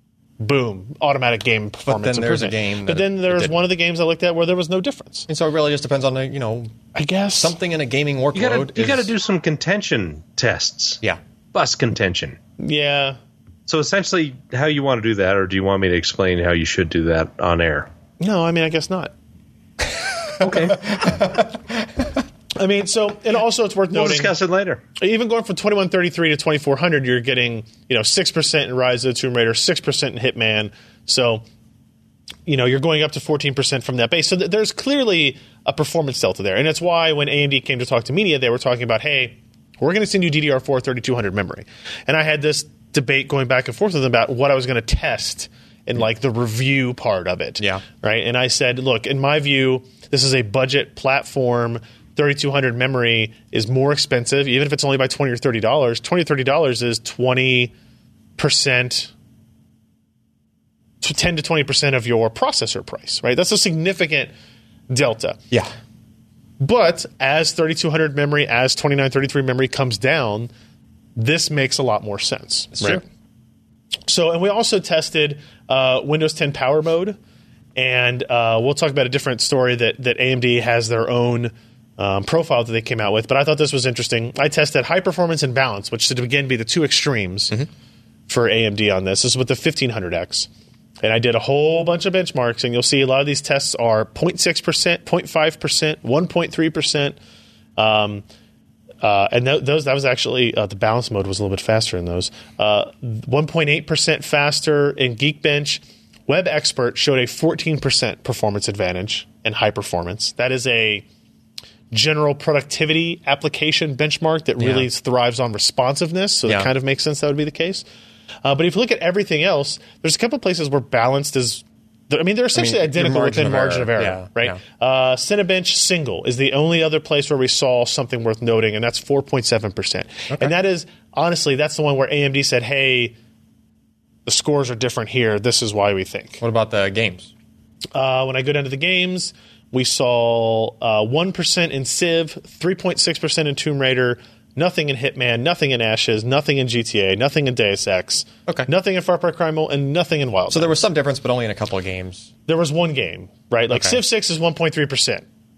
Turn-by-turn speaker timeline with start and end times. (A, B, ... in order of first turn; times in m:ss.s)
0:00.4-0:05.3 A
0:01.8-0:03.6 B
0:05.3-0:06.7 B
0:06.9-0:07.6 A
0:07.4-0:09.1 B
0:08.3-0:11.0 C
0:11.5-0:12.4 C
0:12.6-0:13.2 A
0:13.7-0:17.9 C
0:18.2-0:19.1 A
0:20.4-0:21.8 B
0:22.6-0:24.3 A
0:23.9-0:24.8 C
0:24.9-0:31.4 A
0:32.4-0:57.7 A
0:58.4-0:59.1 A
1:01.0-1:04.3 A
1:04.9-1:05.4 A
1:06.6-1:10.5 A
1:11.2-1:13.0 A
1:12.8-1:13.0 B
1:14.1-1:17.2 A
1:17.8-1:27.6 A
1:28.3-1:30.5 A
1:31.0-1:37.2 A
1:37.8-1:38.2 A
1:39.0-1:51.0 A
1:51.9-1:57.8 A
1:54.6-1:54.9 B
1:58.4-2:13.2 A
2:02.5-2:04.6 B
2:14.2-2:16.4 A
2:16.4-2:17.3 B
2:17.9-2:30.8 A
2:30.5-2:32.3 B
2:32.5-2:35.2 A